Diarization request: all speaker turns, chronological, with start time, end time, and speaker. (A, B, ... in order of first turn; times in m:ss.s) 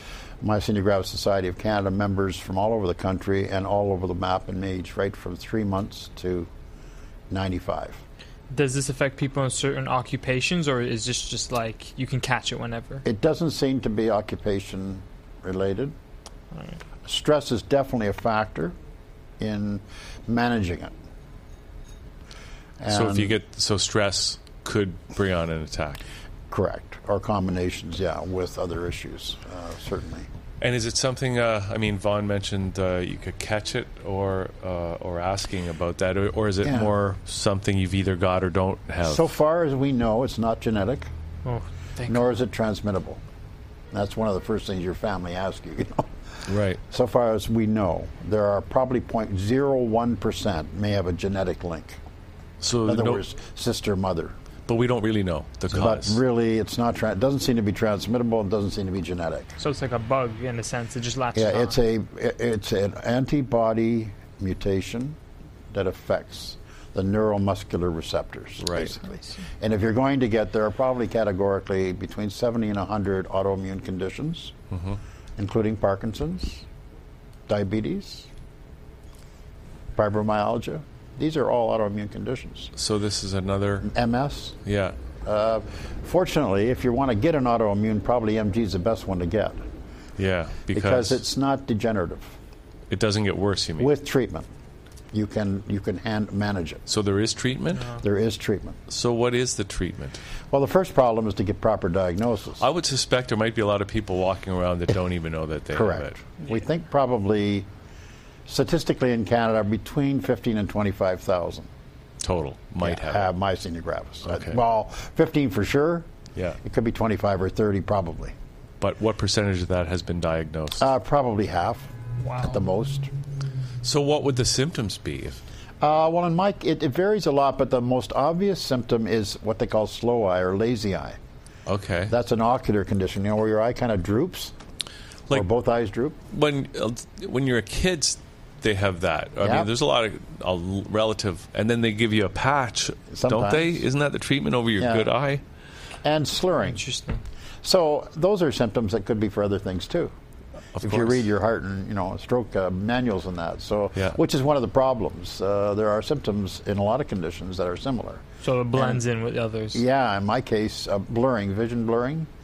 0:00.4-0:06.5 A
0:07.3-0:08.0 A
0:08.5-0:13.0 B
0:13.0-0:15.9 A
0:16.5-0:16.8 B
0:17.0-0:18.8 A
0:19.4-0:20.9 A
0:22.8-0:23.4 A
0:22.9-0:26.0 C
0:26.5-0:30.3 A
0:30.6-0:39.3 C
0:36.6-0:36.9 A
0:39.0-0:41.1 A
0:41.4-0:42.4 B
0:42.1-0:43.2 A
0:43.9-0:46.1 A
0:46.5-0:46.8 C
0:46.9-0:52.0 A
0:52.6-0:53.2 C
0:52.8-0:54.3 A
0:54.7-0:56.2 C
0:55.7-0:59.5 A
0:59.6-1:01.8 B
1:01.3-1:05.2 A
1:05.7-1:14.5 A
1:08.6-1:09.0 C
1:14.7-1:15.0 C
1:15.4-1:16.6 A
1:17.5-1:18.3 A
1:20.0-1:22.7 A
1:22.8-1:23.9 C
1:23.8-1:24.6 A
1:24.6-1:25.0 C
1:25.2-1:29.6 A
1:30.2-1:31.2 C
1:30.7-1:32.4 A
1:32.9-1:33.9 C
1:33.8-1:34.5 A
1:35.1-1:36.8 A
1:36.9-1:37.9 C
1:37.9-1:38.8 A
1:38.9-1:40.2 C
1:40.5-1:42.6 A
1:42.6-1:46.2 C
1:45.7-1:47.7 A
1:48.4-1:51.7 A
1:52.2-1:53.3 C
1:52.8-1:56.1 A
1:54.2-1:54.6 C
1:56.6-1:58.4 A
1:58.8-2:00.9 C
2:00.8-2:03.1 A
2:02.2-2:02.6 B
2:03.8-2:05.4 C
2:05.8-2:11.2 A
2:11.7-2:12.1 C
2:12.1-2:14.5 A
2:15.3-2:16.2 A
2:16.3-2:25.4 C
2:19.4-2:19.7 A
2:23.1-2:23.9 A
2:24.8-2:25.1 A
2:26.0-2:26.8 A
2:26.6-2:27.2 B
2:27.6-2:30.1 A
2:30.8-2:31.2 C
2:30.8-2:38.2 A
2:38.4-2:39.8 B
2:38.7-2:39.0 A
2:39.7-2:42.3 A